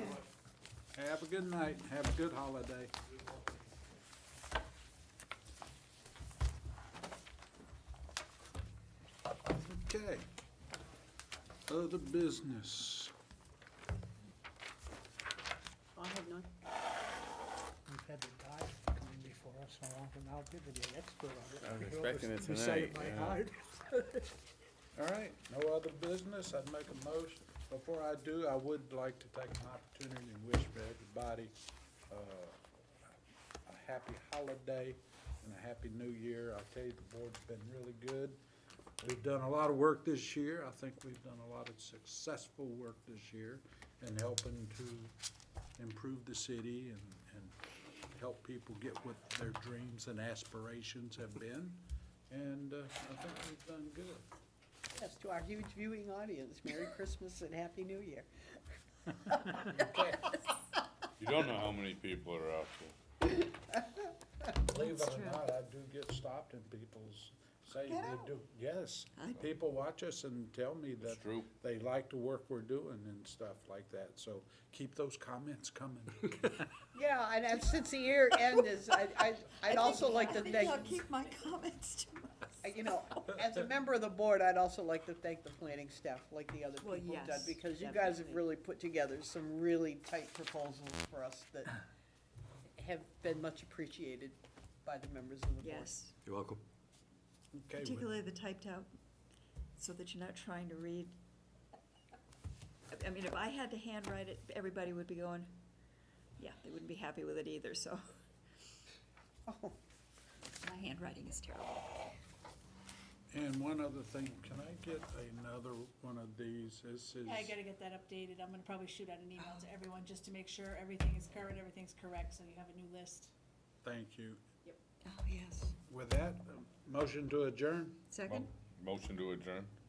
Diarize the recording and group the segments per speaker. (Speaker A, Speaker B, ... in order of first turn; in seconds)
Speaker A: 0.9-2.9, 9.5-10.2, 11.7-13.1, 24.9-31.5, 32.1-32.5, 33.7-38.4, 39.0-45.1, 45.8-54.3, 59.8-60.3, 64.6-76.6, 97.5-98.1, 113.3-117.6, 123.8-124.4, 125.9-128.0
Speaker B: 15.9-16.5, 54.9-58.3, 59.3-59.8, 76.9-81.0, 82.6-91.7, 92.8-96.0, 109.5-109.8
Speaker C: 17.9-24.3
Speaker D: 21.6-23.4, 61.2-63.0, 71.0-71.5, 128.3-129.7
Speaker E: 64.8-65.5, 67.9-68.3, 69.2-69.5, 79.6-82.8, 86.8-88.4, 95.6-96.1, 97.8-98.9, 99.8-101.1, 102.9-105.5, 106.4-108.0, 110.6-112.0, 119.4-119.6, 125.0-125.7, 128.1-128.5
Speaker F: 117.2-123.3